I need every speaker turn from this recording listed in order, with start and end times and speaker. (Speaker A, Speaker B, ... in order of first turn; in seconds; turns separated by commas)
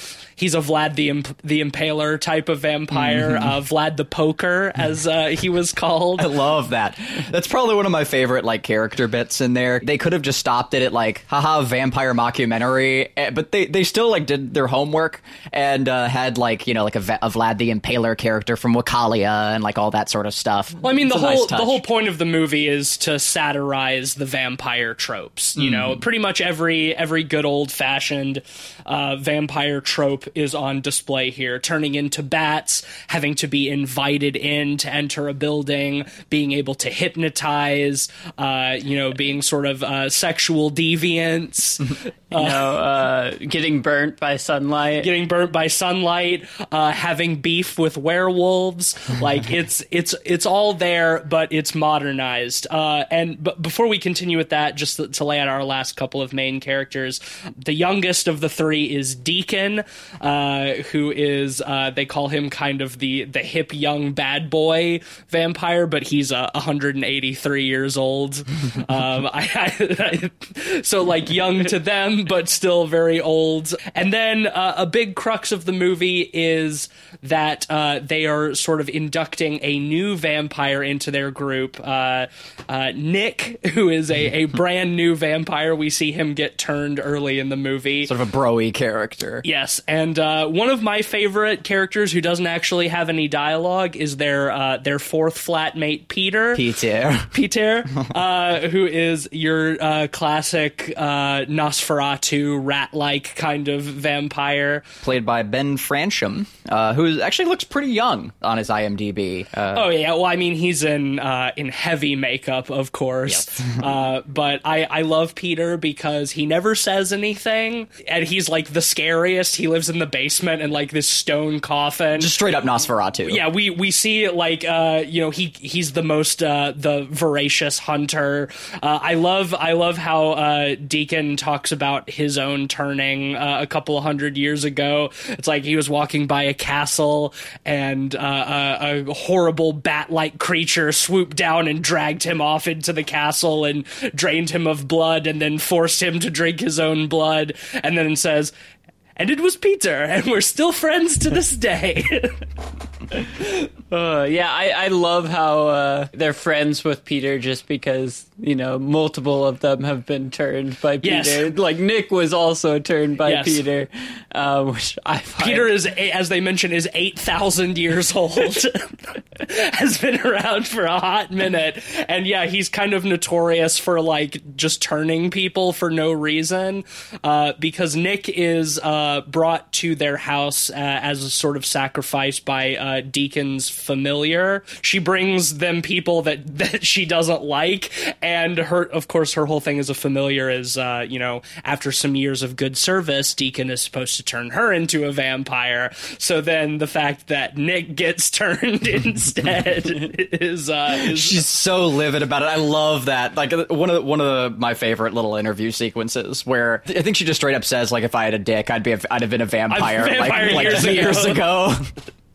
Speaker A: 0.4-6.3, Speaker B: 2.9-3.6, Speaker B: 6.2-21.8, Speaker A: 20.8-42.7, Speaker B: 25.6-26.0, Speaker C: 42.3-45.1, Speaker A: 45.0-88.1, Speaker B: 88.0-89.4, Speaker A: 89.4-96.7, Speaker B: 96.5-97.3, Speaker A: 97.3-104.9, Speaker B: 105.0-109.9, Speaker A: 109.7-122.3, Speaker B: 113.2-113.8, Speaker B: 122.2-123.4, Speaker A: 123.2-148.5, Speaker A: 149.2-152.4, Speaker C: 153.9-165.7, Speaker A: 161.0-161.5, Speaker A: 163.2-163.6, Speaker A: 165.4-201.4, Speaker B: 200.9-211.9, Speaker A: 209.7-211.4